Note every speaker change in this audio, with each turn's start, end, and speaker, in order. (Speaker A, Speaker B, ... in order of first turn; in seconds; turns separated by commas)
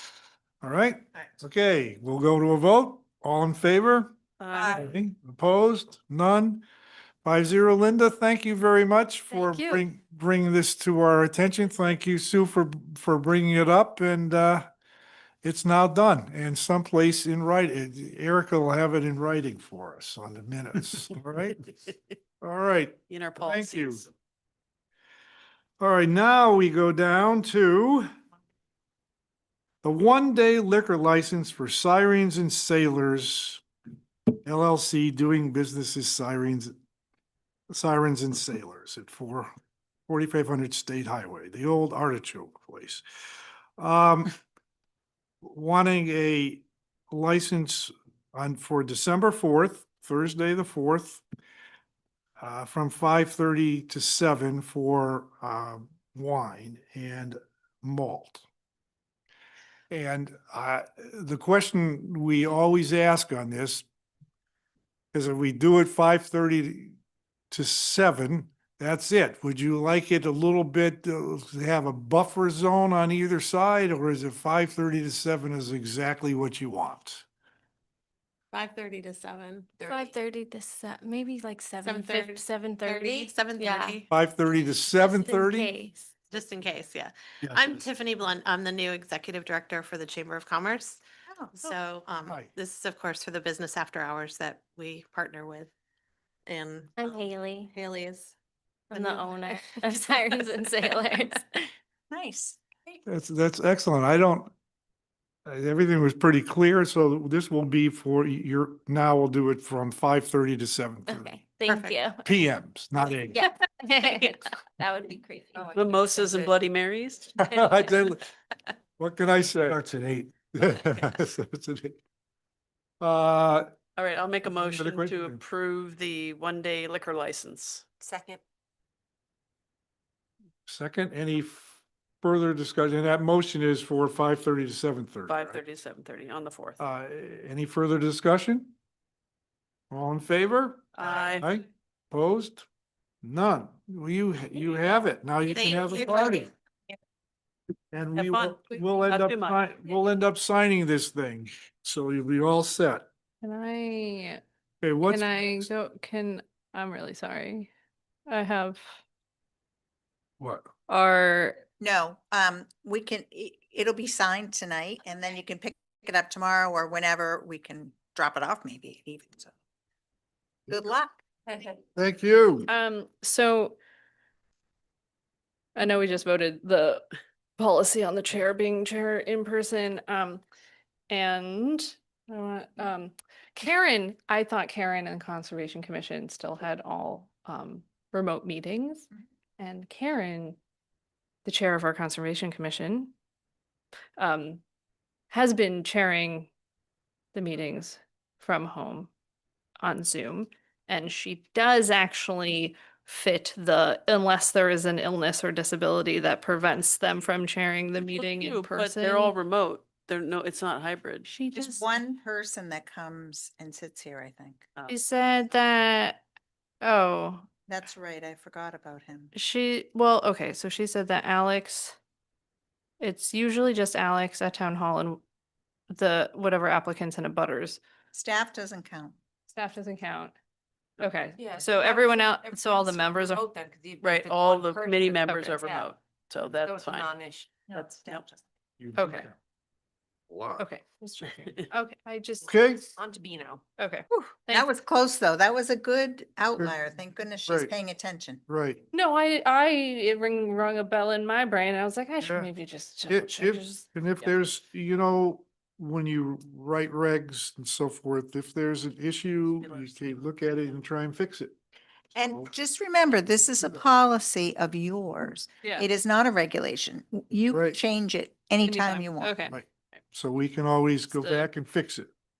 Speaker A: 0.6-4.1, Speaker B: 4.4-4.9, Speaker A: 4.7-6.6, Speaker A: 7.2-14.7, Speaker C: 9.3-9.8, Speaker A: 15.4-21.6, Speaker A: 22.4-24.1, Speaker B: 23.1-24.1, Speaker A: 25.8-28.1, Speaker A: 29.8-33.6, Speaker A: 34.5-36.8, Speaker A: 37.7-39.5, Speaker A: 40.1-43.0, Speaker A: 43.8-44.3, Speaker A: 45.4-51.2, Speaker A: 52.4-58.4, Speaker A: 59.9-63.9, Speaker A: 65.1-67.0, Speaker A: 67.5-77.3, Speaker D: 78.5-80.1, Speaker C: 79.8-84.0, Speaker D: 81.8-84.1, Speaker A: 84.1-85.7, Speaker C: 85.0-86.1, Speaker D: 86.3-91.0, Speaker E: 91.3-91.5, Speaker D: 91.5-95.7, Speaker A: 92.3-92.5, Speaker D: 96.5-98.3, Speaker C: 97.0-97.7, Speaker C: 98.9-101.7, Speaker D: 98.9-101.0, Speaker E: 102.1-102.6, Speaker A: 103.1-104.5, Speaker A: 105.5-111.4, Speaker C: 111.1-112.3, Speaker D: 111.7-112.0, Speaker A: 112.2-113.4, Speaker C: 113.3-116.3, Speaker F: 115.6-116.5, Speaker B: 115.7-117.4, Speaker A: 117.4-118.2, Speaker A: 119.0-122.0, Speaker A: 123.0-123.7, Speaker B: 124.0-127.9, Speaker A: 124.5-125.4, Speaker F: 128.0-128.4, Speaker A: 130.7-135.6, Speaker B: 135.3-136.8, Speaker A: 136.8-138.7, Speaker A: 139.9-142.7, Speaker B: 140.9-141.5, Speaker A: 143.2-146.5, Speaker D: 145.5-146.5, Speaker A: 147.9-153.1, Speaker B: 148.2-149.6, Speaker G: 153.4-154.4, Speaker A: 154.8-155.7, Speaker G: 155.0-157.7, Speaker G: 158.3-159.0, Speaker A: 160.4-160.7, Speaker G: 160.9-161.6, Speaker E: 161.8-169.5, Speaker E: 170.7-171.2, Speaker A: 172.0-172.7, Speaker G: 172.7-173.8, Speaker G: 175.8-180.4, Speaker G: 181.1-190.6, Speaker G: 191.4-193.1, Speaker G: 194.2-194.6, Speaker G: 195.3-196.5, Speaker G: 197.3-199.1, Speaker G: 199.8-209.4, Speaker B: 208.1-211.3, Speaker G: 211.3-211.9, Speaker E: 211.6-214.7, Speaker G: 214.9-216.2, Speaker G: 216.8-217.5, Speaker E: 217.7-219.3, Speaker G: 219.3-222.0, Speaker G: 223.0-225.2, Speaker G: 225.9-227.8, Speaker E: 228.1-229.2, Speaker G: 229.5-230.3, Speaker G: 231.0-233.5, Speaker F: 231.4-235.9, Speaker B: 234.0-237.1, Speaker F: 236.5-238.4, Speaker B: 237.7-238.3, Speaker A: 238.8-239.3, Speaker G: 239.0-239.3, Speaker A: 240.3-240.7, Speaker G: 240.6-242.6, Speaker A: 242.4-242.9, Speaker F: 243.0-243.6, Speaker G: 243.8-244.7, Speaker E: 244.1-248.4, Speaker A: 247.5-247.7, Speaker A: 248.5-248.8, Speaker G: 248.9-253.9, Speaker A: 252.2-252.5, Speaker A: 253.1-261.6, Speaker B: 259.7-259.9, Speaker E: 262.1-269.4, Speaker A: 267.5-267.8, Speaker G: 268.6-269.6, Speaker A: 269.5-272.1, Speaker G: 271.1-271.5